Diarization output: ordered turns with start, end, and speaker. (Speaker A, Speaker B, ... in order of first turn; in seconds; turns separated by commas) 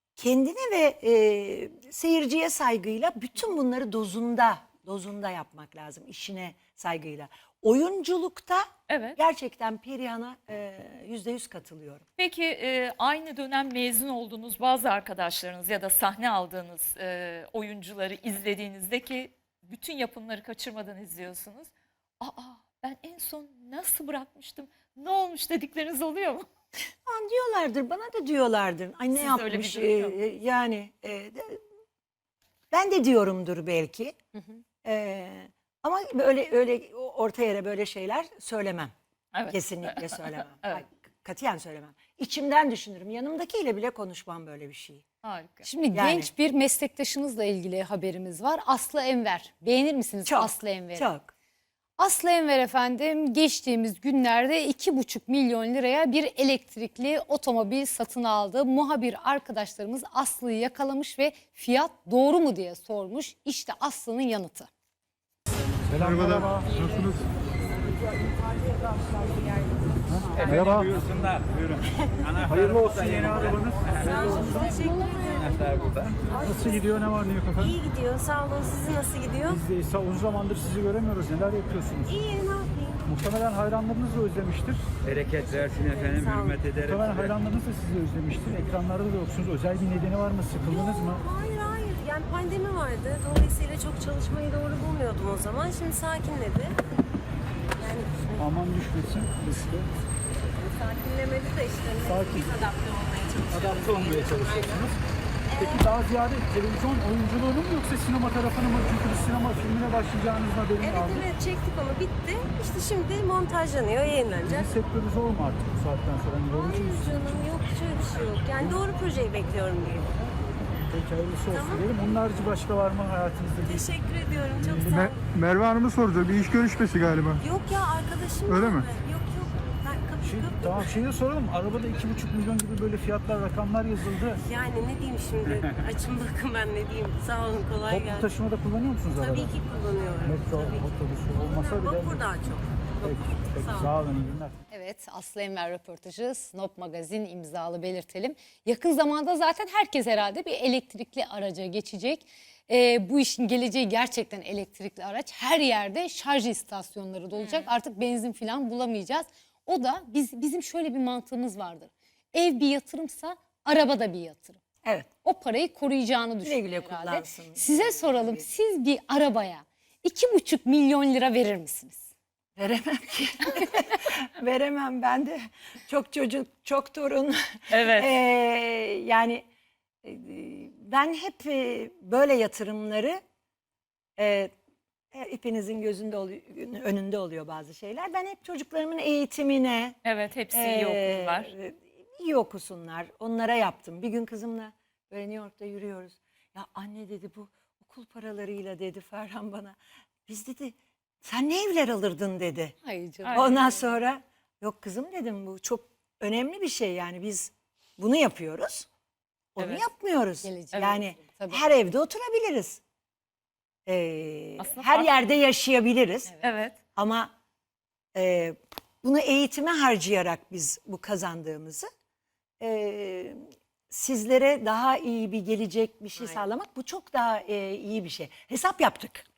Speaker A: 0.2-12.1, Speaker B: 8.9-9.2, Speaker B: 12.2-26.5, Speaker A: 27.1-31.6, Speaker B: 29.1-30.2, Speaker A: 32.7-34.1, Speaker A: 34.8-38.9, Speaker B: 39.3-40.8, Speaker A: 39.5-45.0, Speaker B: 45.2-45.7, Speaker C: 45.6-51.1, Speaker A: 45.9-46.3, Speaker A: 50.2-51.3, Speaker C: 52.0-64.7, Speaker D: 65.9-66.9, Speaker D: 70.1-71.0, Speaker E: 70.4-74.2, Speaker D: 72.4-75.2, Speaker F: 74.2-75.4, Speaker E: 75.4-76.4, Speaker D: 76.3-77.9, Speaker F: 77.8-79.4, Speaker D: 79.4-82.3, Speaker F: 82.3-83.0, Speaker D: 83.0-85.0, Speaker E: 85.0-87.4, Speaker F: 86.0-86.5, Speaker D: 86.9-91.4, Speaker F: 91.3-96.8, Speaker F: 97.8-98.2, Speaker D: 98.2-99.9, Speaker F: 100.9-102.0, Speaker D: 101.9-102.8, Speaker F: 102.6-103.4, Speaker D: 103.4-105.0, Speaker D: 105.5-111.4, Speaker F: 111.4-114.4, Speaker D: 114.3-117.6, Speaker F: 117.3-120.1, Speaker D: 118.4-119.3, Speaker D: 120.9-125.2, Speaker F: 124.0-124.6, Speaker G: 124.9-127.4, Speaker F: 127.4-130.2, Speaker G: 128.5-128.9, Speaker D: 130.2-134.5, Speaker F: 134.5-137.8, Speaker D: 137.8-142.5, Speaker F: 139.6-140.2, Speaker F: 142.2-142.6, Speaker D: 143.0-144.6, Speaker C: 144.7-164.6, Speaker B: 157.4-157.7, Speaker A: 164.8-165.1, Speaker C: 165.2-172.1, Speaker A: 166.4-168.5, Speaker A: 172.6-179.4, Speaker B: 177.7-178.1, Speaker A: 180.0-183.2, Speaker A: 184.2-184.5, Speaker A: 185.1-190.0, Speaker B: 190.0-191.5, Speaker A: 190.5-202.8, Speaker C: 202.8-203.8, Speaker B: 203.2-203.6, Speaker A: 203.3-208.9, Speaker A: 209.6-212.8, Speaker B: 209.6-209.8, Speaker C: 210.4-211.6, Speaker B: 210.7-211.0, Speaker A: 213.9-216.4, Speaker B: 214.6-215.1, Speaker B: 216.4-216.8, Speaker A: 217.0-217.3, Speaker A: 218.2-221.9, Speaker A: 222.6-229.3